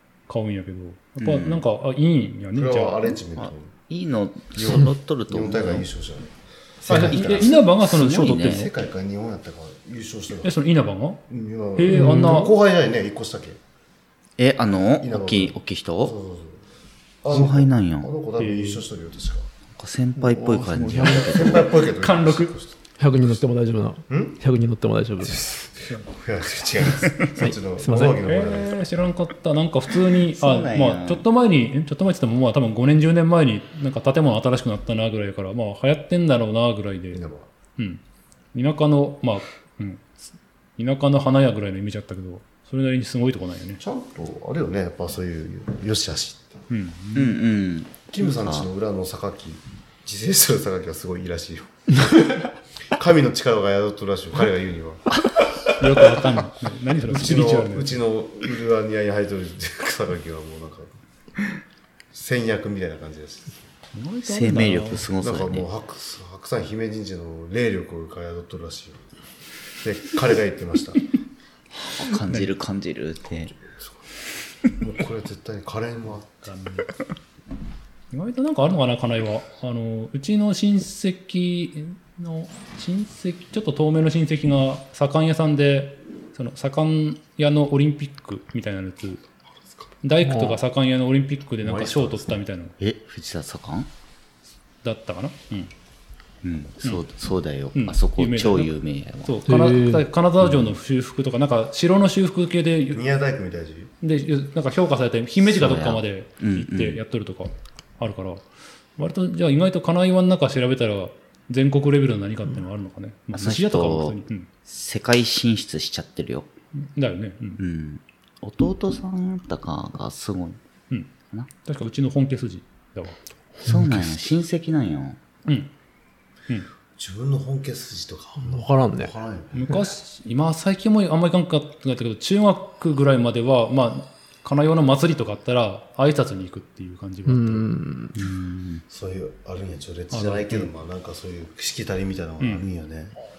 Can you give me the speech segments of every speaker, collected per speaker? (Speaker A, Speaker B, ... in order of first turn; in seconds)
Speaker A: 0.3-3.1, 6.9-8.7, 10.4-11.2, 11.8-12.5, 18.4-18.8, 21.8-22.5, 27.9-37.2, 38.5-40.2, 40.8-43.8, 46.7-47.4, 55.8-58.0, 63.9-65.1, 72.3-72.5, 76.4-76.9, 78.1-89.2, 90.0-92.7, 94.8-95.7, 97.7-103.0, 104.0-108.4, 109.0-114.5, 116.8-117.6, 121.6-123.2, 125.5-125.7, 129.5-137.7, 140.1-140.7, 142.4-142.6
Speaker B: 1.2-1.6, 3.4-5.9, 7.0-8.7, 14.4-16.1, 17.3-18.1, 19.8-21.8, 30.3-31.2, 47.1-48.7, 64.2-65.7, 71.9-73.5, 92.8-93.9, 96.4-99.4, 100.4-100.7, 105.4-107.0, 113.3-116.5, 117.6-120.6, 123.6-125.2, 138.1-138.8
Speaker C: 2.5-3.7, 4.5-10.6, 11.3-13.6, 15.0-16.6, 17.2-19.5, 20.3-22.8, 24.1-24.4, 25.2-28.8, 37.1-37.5, 43.8-46.6, 48.1-55.2, 57.1-60.9, 62.1-63.6, 65.2-69.0, 69.8-71.1, 74.8-76.5, 91.6-92.4, 102.9-103.9, 127.0-129.8, 138.9-143.1
Speaker D: 11.9-12.4, 20.9-21.3, 23.0-25.6, 27.4-28.2, 90.2-90.6, 99.5-100.0, 123.6-124.2, 128.4-129.1, 137.2-138.2